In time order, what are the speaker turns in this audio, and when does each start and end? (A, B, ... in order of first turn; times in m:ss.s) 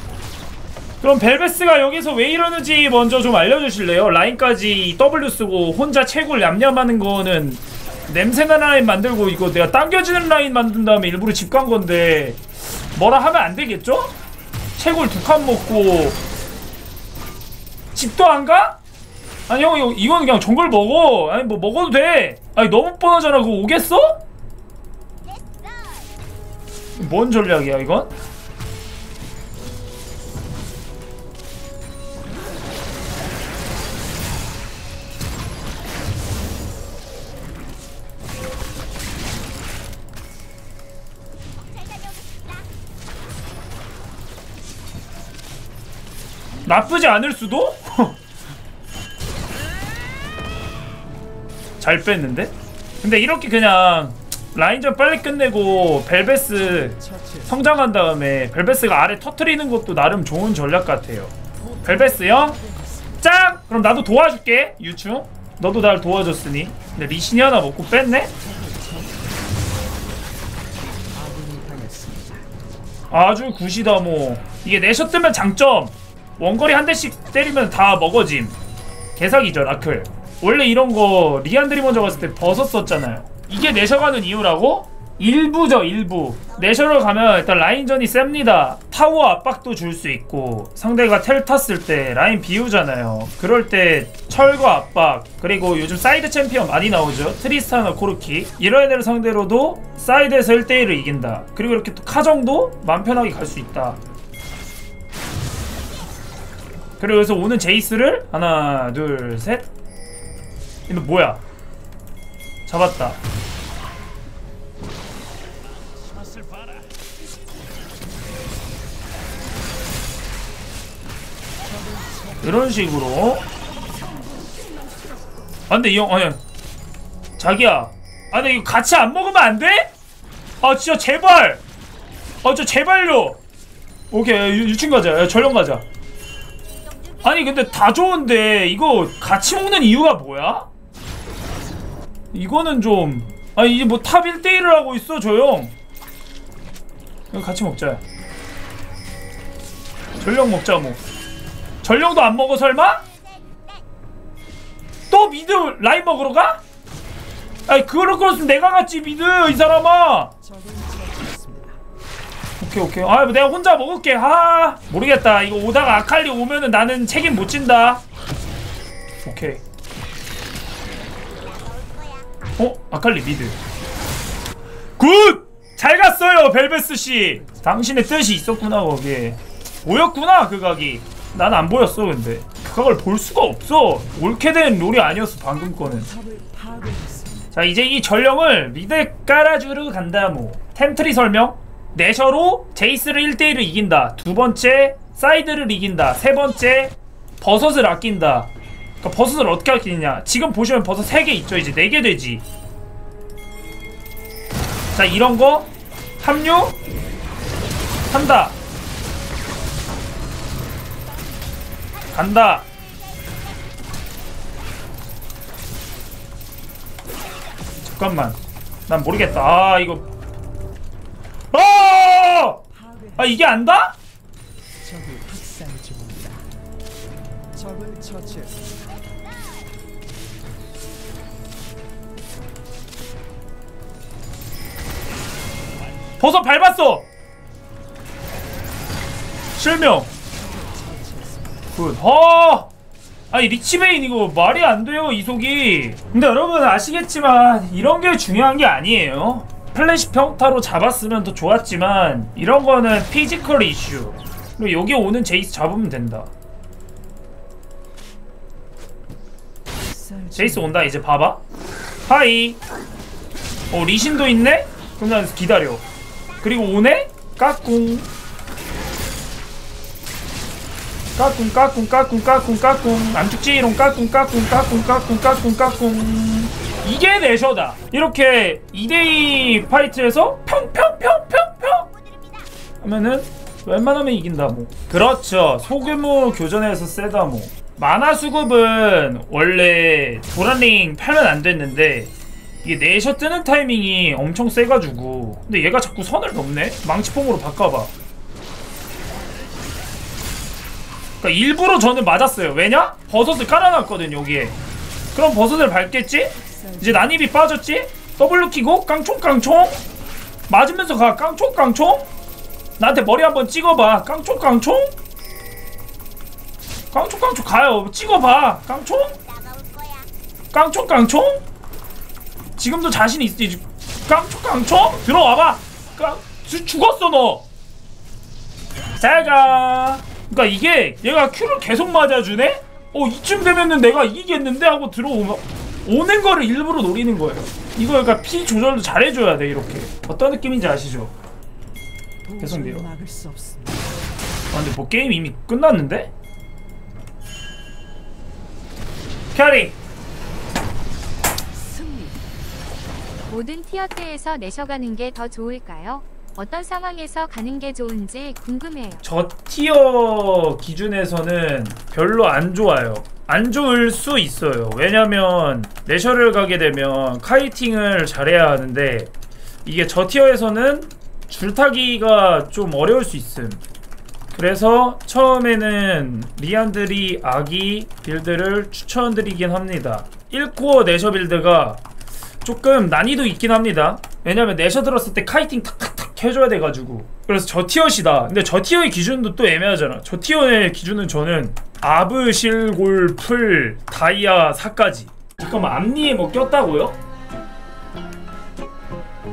0:01.0-0:14.2 A
0:14.8-0:16.2 A
0:17.9-0:18.8 A
0:19.5-0:24.2 A
0:27.0-0:28.1 A
0:46.6-0:48.2 A
0:51.8-1:02.6 A
0:56.7-0:57.7 B
1:01.6-1:03.3 B
1:03.2-1:08.3 A
1:08.4-1:09.5 B
1:11.1-1:12.5 B
1:13.1-1:18.6 A
1:19.2-1:44.0 A
1:47.0-1:49.7 A
1:50.9-1:51.4 A
1:52.7-1:53.2 A
2:01.9-2:02.4 B
2:02.4-2:03.5 A
2:05.7-2:06.4 A
2:07.4-2:09.9 A
2:10.6-2:11.6 A
2:12.4-2:13.4 A
2:14.1-2:15.8 A
2:17.2-2:20.7 A
2:22.3-2:25.8 A
2:27.3-2:28.0 A
2:30.2-2:31.0 A
2:31.8-2:33.1 A
2:35.1-2:36.6 A
2:37.7-2:40.3 A
2:40.4-2:41.8 B
2:42.6-2:48.0 A
2:49.2-2:49.6 A
2:52.6-2:53.6 A
2:55.0-3:06.1 A
2:57.2-2:57.8 B
3:05.9-3:07.5 B
3:07.5-3:22.4 A
3:24.9-3:26.8 A
3:28.1-3:28.6 A
3:32.1-3:32.7 A
3:37.8-3:40.1 A
3:41.5-3:42.6 A
3:42.7-3:43.4 B
3:43.2-3:44.0 A
3:44.8-3:46.5 B
3:47.5-3:48.9 B
3:56.2-3:57.1 A
3:59.6-4:00.1 A
4:00.3-4:01.7 B
4:01.7-4:02.7 A
4:03.3-4:16.3 A
4:19.8-4:20.9 B
4:20.4-4:21.4 A
4:22.1-4:22.6 A
4:23.7-4:25.8 A
4:26.4-4:28.1 A
4:31.2-4:41.9 A
4:42.8-4:52.1 A
4:52.6-4:57.9 A
5:01.2-5:04.6 A
5:05.1-5:09.8 A
5:06.4-5:07.2 B
5:10.5-5:12.1 A
5:12.8-5:15.0 A
5:16.9-5:19.2 A
5:20.5-5:21.4 A
5:22.6-5:27.4 A
5:29.0-5:41.1 A
5:42.2-5:44.0 B
5:42.4-5:42.9 A
5:44.5-5:46.1 A
5:49.3-5:49.8 A
5:51.5-5:52.2 B
5:53.3-5:59.0 C
5:59.0-6:09.1 A
6:09.6-6:13.6 A
6:14.3-6:21.8 A
6:22.4-6:37.0 A